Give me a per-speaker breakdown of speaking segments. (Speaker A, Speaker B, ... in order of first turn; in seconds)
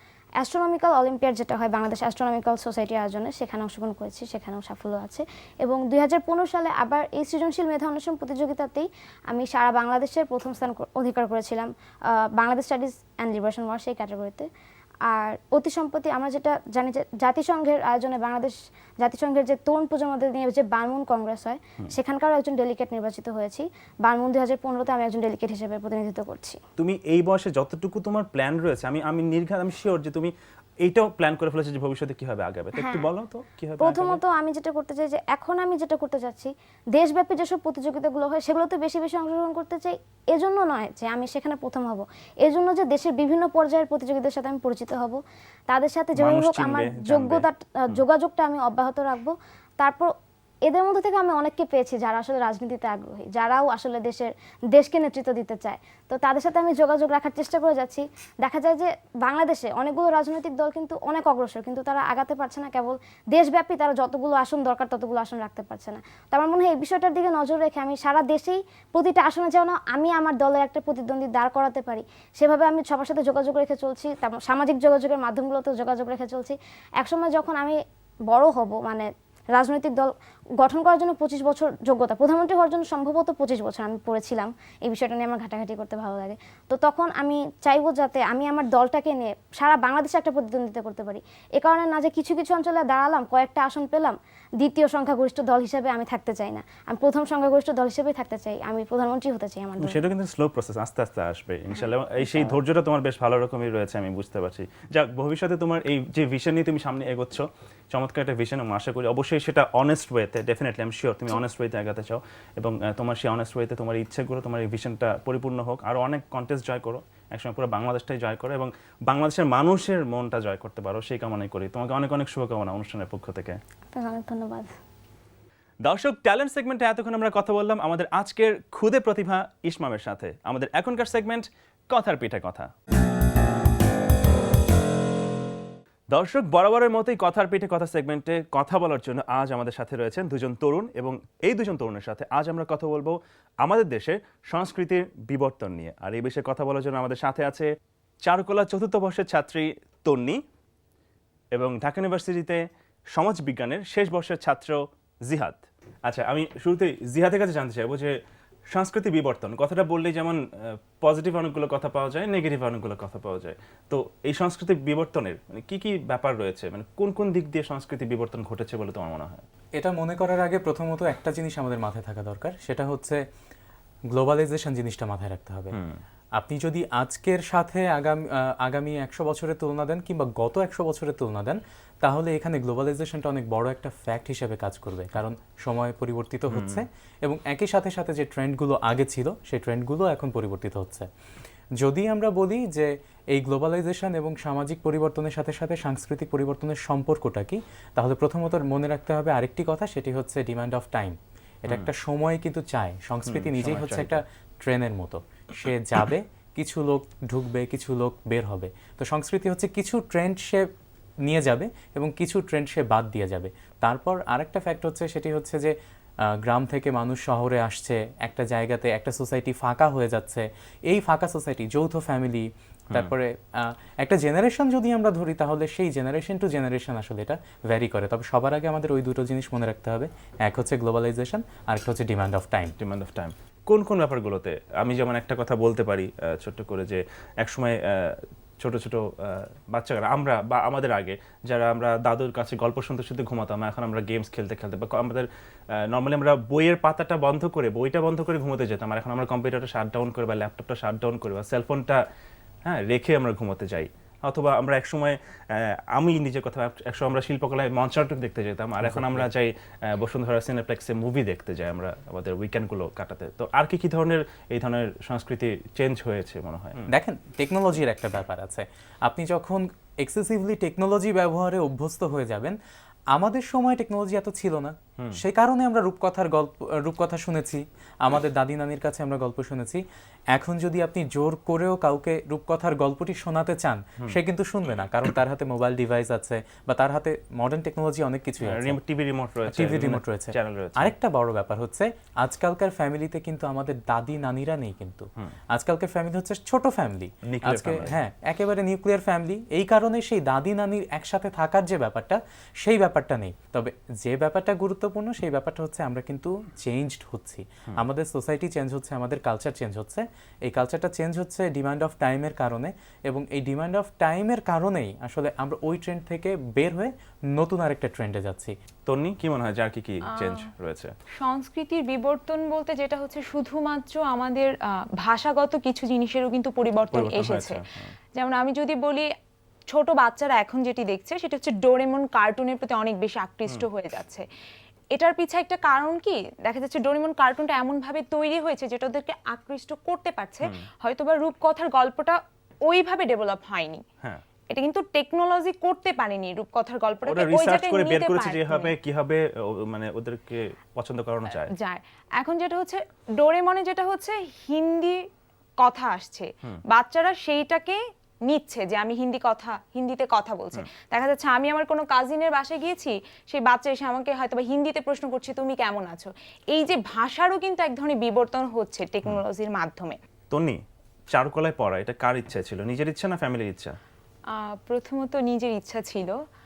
Speaker A: 0.4-11.7, 12.4-14.5, 15.1-26.6, 32.7-33.1, 33.8-50.1, 50.7-77.8, 78.3-100.0, 101.7-102.6, 123.9-124.7
Speaker B: 26.8-30.3, 30.9-34.2, 46.1-48.0, 99.8-123.6, 125.8-132.7, 136.1-147.7, 148.2-150.4, 151.5-152.6, 153.1-158.1, 158.7-160.4, 161.0-169.4, 175.7-176.0, 186.5-186.8, 203.3-204.2, 232.8-245.3, 245.9-252.0, 252.7-266.9, 288.4-290.9, 297.3-298.0, 318.9-320.9, 326.9-327.9, 347.1-351.5, 370.3-370.6, 371.1-373.7
Speaker C: 169.8-173.2, 174.1-175.8, 176.4-191.1, 191.8-210.7, 211.2-215.7, 216.4-232.8, 258.8-259.3, 266.9-272.6, 273.1-288.8, 289.4-318.5
Speaker D: 320.2-320.5, 321.2-327.6, 328.2-329.1, 329.7-334.2, 334.9-343.8, 344.5-348.8, 351.6-355.0, 355.6-370.0, 374.6-376.1